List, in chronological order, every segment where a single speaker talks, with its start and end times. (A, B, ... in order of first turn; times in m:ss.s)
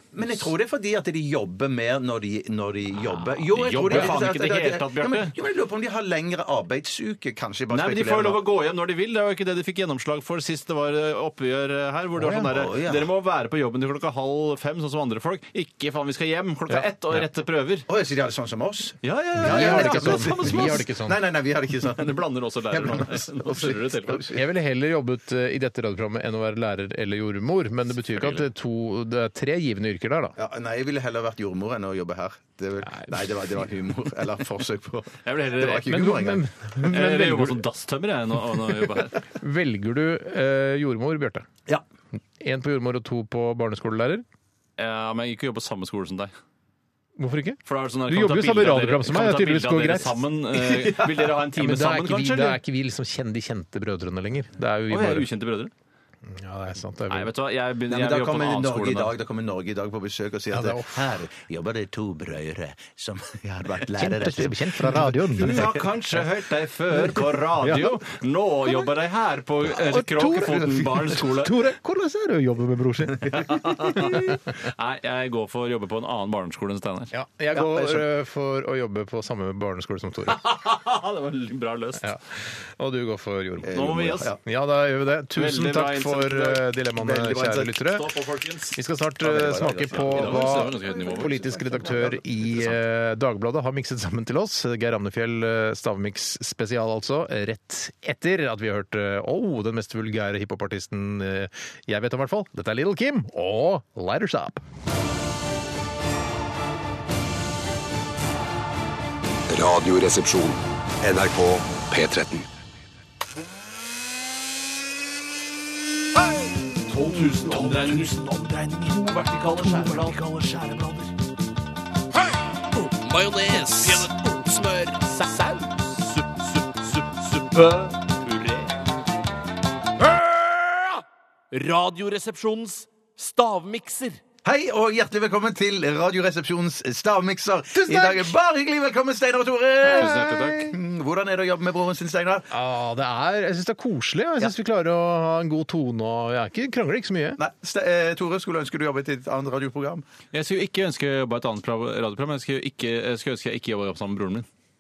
0:00.1-0:08.4 A
0:03.2-0:05.3 B
0:07.7-0:17.9 B
0:12.2-0:12.5 C
0:12.5-0:13.1 A
0:16.7-0:17.2 C
0:17.9-0:24.4 A
0:19.0-0:20.8 B
0:19.4-0:21.2 C
0:21.9-0:24.3 B
0:24.3-0:30.4 C
0:28.1-0:28.4 B
0:30.4-0:36.4 A
0:35.2-0:36.0 B
0:35.8-0:37.6 C
0:36.8-0:39.2 B
0:39.3-0:41.5 C
0:42.4-0:44.2 C
0:44.8-0:46.3 B
0:47.2-0:50.3 C
0:47.7-0:52.6 B
0:50.6-0:51.3 A
0:51.5-0:55.3 C
0:54.9-0:55.7 B
0:56.3-0:57.3 C
0:57.1-0:59.1 B
0:57.9-1:05.2 A
1:00.5-1:01.1 C
1:03.9-1:06.2 C
1:05.4-1:11.6 B
1:07.0-1:08.0 C
1:09.8-1:14.4 C
1:13.3-1:17.1 B
1:17.1-1:20.4 C
1:17.5-1:18.1 A
1:20.3-1:22.2 B
1:22.0-1:28.1 C
1:23.7-1:24.4 A
1:23.7-1:24.3 B
1:25.4-1:26.7 B
1:27.0-1:27.8 A
1:27.8-1:28.8 B
1:28.8-1:44.6 C
1:29.2-1:32.2 A
1:29.9-1:31.9 B
1:49.5-1:52.5 D
1:56.9-1:58.1 B
1:56.9-2:00.6 E
1:58.9-2:01.1 B
2:02.7-2:08.7 E
2:10.0-2:14.2 E
2:14.4-2:22.5 A
2:17.8-2:18.3 C
2:19.9-2:20.7 B
2:19.9-2:20.4 C
2:22.5-2:27.4 C
2:27.4-2:30.0 A
2:30.3-2:34.5 B